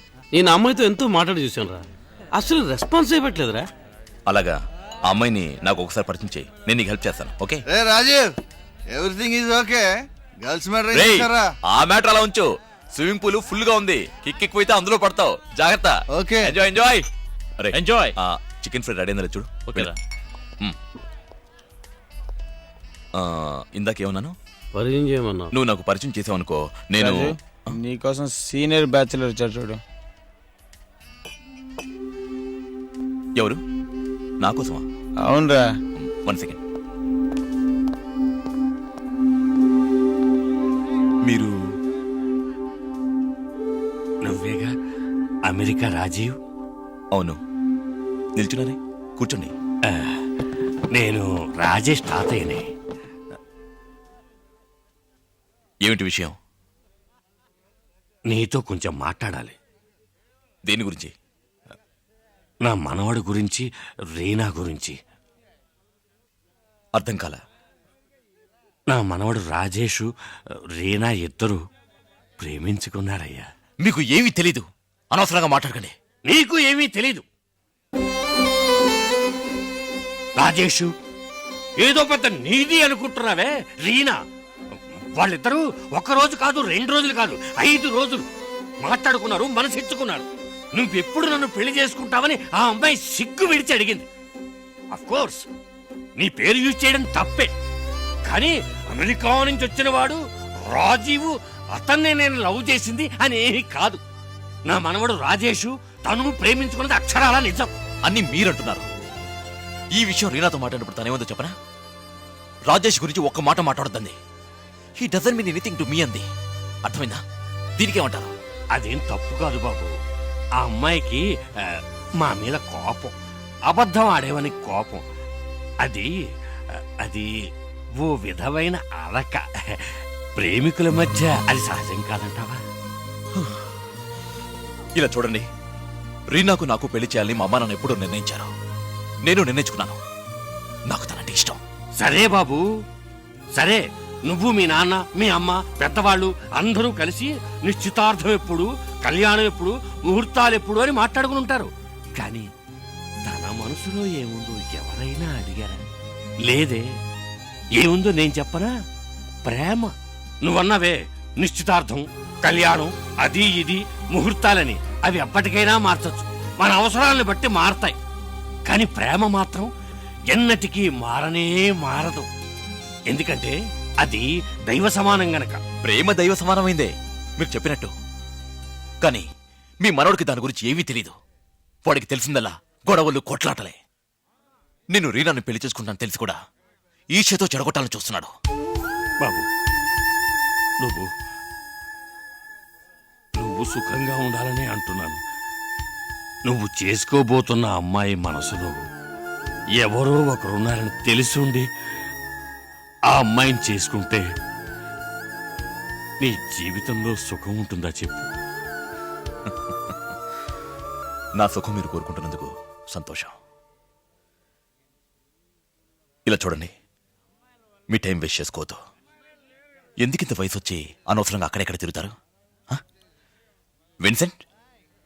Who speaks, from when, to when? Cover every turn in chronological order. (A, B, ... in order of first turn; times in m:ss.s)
0:00.3-0:01.8 A
0:02.4-0:03.7 A
0:04.3-0:04.5 B
0:05.1-0:07.6 B
0:07.7-0:08.3 C
0:08.9-0:11.5 C
0:10.9-0:17.0 B
0:16.1-0:16.5 C
0:17.6-0:19.9 B
0:23.2-0:24.3 B
0:24.7-0:25.5 A
0:25.5-0:27.4 B
0:27.8-0:29.8 D
0:34.4-0:34.8 B
0:36.0-0:36.6 B
0:41.2-0:41.5 B
0:44.2-0:44.7 E
0:45.5-0:46.3 E
0:48.4-0:49.5 B
0:49.9-0:50.2 E
0:50.9-0:52.6 E
0:55.8-0:56.3 B
0:58.3-0:59.6 E
1:00.7-1:01.1 B
1:02.6-1:05.0 E
1:07.0-1:07.4 B
1:08.9-1:10.1 E
1:10.8-1:11.6 E
1:12.4-1:13.4 E
1:13.8-1:15.9 B
1:16.2-1:17.2 E
1:20.4-1:20.9 E
1:21.8-1:24.2 E
1:24.8-1:28.3 E
1:28.8-1:34.1 E
1:34.9-1:35.4 E
1:36.2-1:37.5 E
1:38.2-1:44.0 E
1:44.7-1:47.7 E
1:48.0-1:48.8 B
1:49.9-1:51.5 B
1:52.7-1:54.2 B
1:55.0-1:56.2 B
1:56.8-1:57.2 B
1:57.8-1:58.3 B
1:58.7-1:59.9 E
2:00.6-2:03.1 E
2:03.7-2:05.0 E
2:05.8-2:06.1 E
2:07.0-2:07.3 E
2:08.0-2:12.6 E
2:13.4-2:13.6 B
2:15.0-2:15.5 B
2:16.3-2:18.5 B
2:19.2-2:20.0 B
2:20.9-2:21.6 B
2:22.0-2:22.6 E
2:23.5-2:32.5 E
2:33.2-2:35.8 E
2:36.4-2:36.8 E
2:37.8-2:38.7 E
2:39.4-2:48.0 E
2:48.6-2:49.7 E
2:50.3-2:52.3 E
2:53.1-2:55.6 E
2:55.8-2:57.9 B
2:59.8-3:01.1 B
3:01.8-3:03.8 B
3:04.9-3:06.4 B
3:07.1-3:08.3 B
3:09.2-3:09.4 E
3:10.8-3:11.1 E
3:13.4-3:15.2 E
3:16.5-3:18.8 E
3:19.8-3:21.7 E
3:23.1-3:24.2 E
3:26.2-3:28.3 E
3:29.5-3:29.9 B
3:31.4-3:33.3 B
3:36.3-3:36.7 B
3:37.9-3:38.8 B
3:40.0-3:42.1 B
3:44.0-3:44.4 B